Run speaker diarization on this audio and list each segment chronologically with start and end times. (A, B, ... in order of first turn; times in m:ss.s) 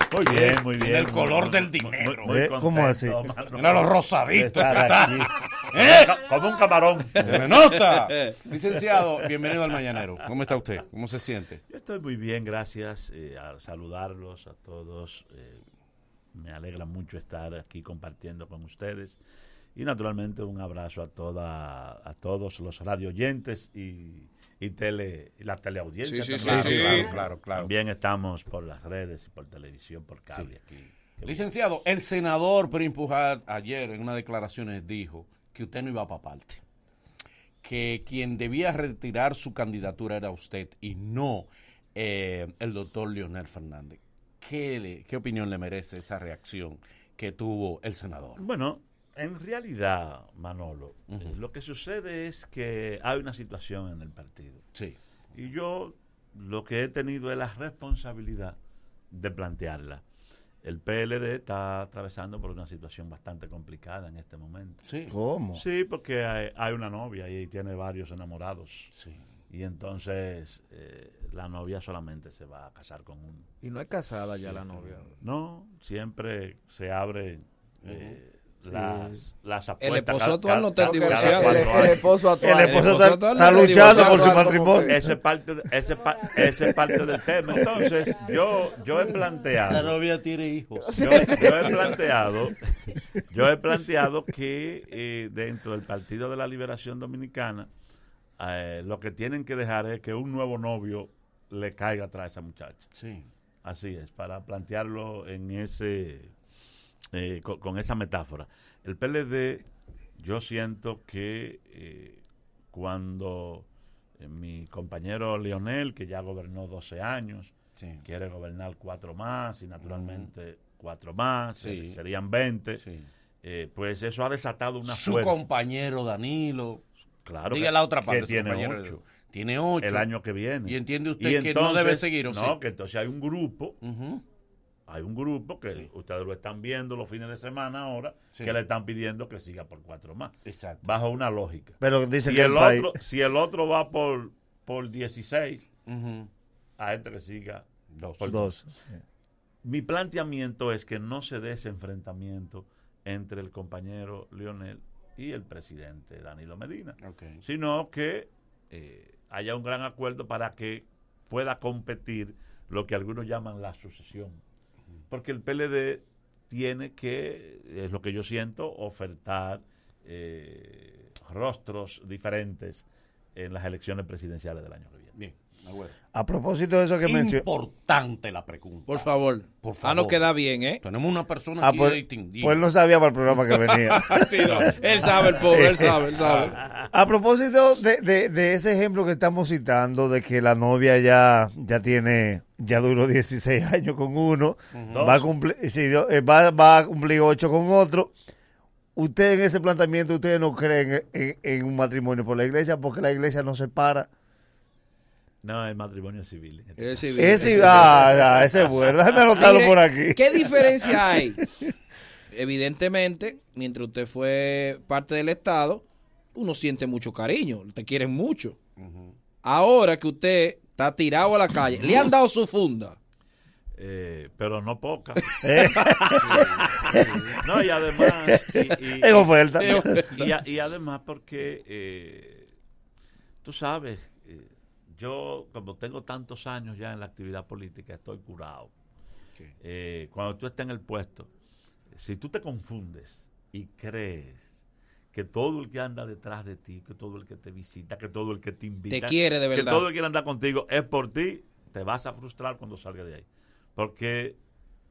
0:00.1-0:07.5 A
0:00.2-0:02.3 B
0:02.2-0:03.2 C
0:03.5-0:06.3 B
0:07.1-0:08.4 D
0:07.2-0:11.6 B
0:11.7-0:15.6 A
0:16.3-0:19.2 A
0:19.7-0:31.4 A
0:26.0-0:27.1 D
0:26.4-0:27.7 B
0:26.5-0:26.8 C
0:31.2-0:36.6 B
0:37.6-0:48.4 B
0:48.4-0:54.6 A
0:51.1-0:51.4 B
0:55.3-0:58.6 A
0:59.1-1:00.0 A
1:00.6-1:04.8 A
1:04.8-1:05.1 B
1:05.1-1:05.6 C
1:05.5-1:08.9 A
1:08.9-1:09.2 B
1:09.5-1:13.5 A
1:13.6-1:15.1 E
1:15.2-1:22.2 A
1:17.8-1:18.2 B
1:18.7-1:19.1 C
1:19.8-1:22.0 D
1:20.8-1:25.0 E
1:22.4-1:25.1 C
1:22.6-1:24.5 D
1:24.8-1:30.0 A
1:29.6-1:31.8 B
1:30.8-1:32.0 E
1:31.0-1:37.7 A
1:38.4-1:42.9 A
1:42.9-1:43.3 B
1:43.6-1:46.3 A
1:47.1-1:53.7 A
1:54.2-2:02.8 A
1:57.8-1:58.0 B
1:59.8-2:00.3 B
2:01.6-2:02.0 B
2:02.8-2:03.1 B
2:03.4-2:05.4 A
2:04.8-2:06.8 B
2:07.2-2:09.0 A
2:07.5-2:10.1 B
2:09.8-2:13.8 A
2:10.6-2:12.6 B
2:13.8-2:14.2 B
2:14.9-2:25.7 A
2:20.4-2:20.9 B
2:21.8-2:23.0 C
2:25.9-2:26.3 B
2:26.8-2:27.6 A
2:27.9-2:28.5 B
2:28.2-2:28.5 A
2:28.2-2:28.6 C
2:29.6-2:44.4 A
2:37.0-2:37.4 B
2:45.1-2:52.8 A
2:53.3-2:55.1 A
2:55.1-2:55.9 B
2:56.1-2:57.4 C
2:57.0-2:59.0 B
2:58.9-3:00.8 D
2:59.6-3:00.3 B
3:00.8-3:02.6 B
3:01.6-3:04.7 C
3:03.6-3:04.7 B
3:03.9-3:06.6 D
3:05.4-3:06.0 C
3:06.2-3:06.6 B
3:06.3-3:06.9 A
3:06.9-3:18.1 C
3:14.7-3:15.2 B
3:14.9-3:15.3 A
3:19.0-3:24.1 C
3:25.4-3:28.2 A
3:26.8-3:28.2 D
3:27.2-3:30.6 C
3:29.4-3:31.4 D
3:32.3-3:35.8 D
3:36.3-3:38.6 D
3:38.8-3:39.1 B
3:39.4-3:43.0 D
3:43.7-3:45.4 A
3:45.4-3:50.1 C
3:46.2-3:47.3 B
3:47.4-3:52.5 A
3:49.6-3:50.2 D
3:53.4-3:58.7 A
3:59.6-4:01.3 A
4:01.9-4:04.4 A
4:05.1-4:14.4 A
4:08.9-4:09.9 D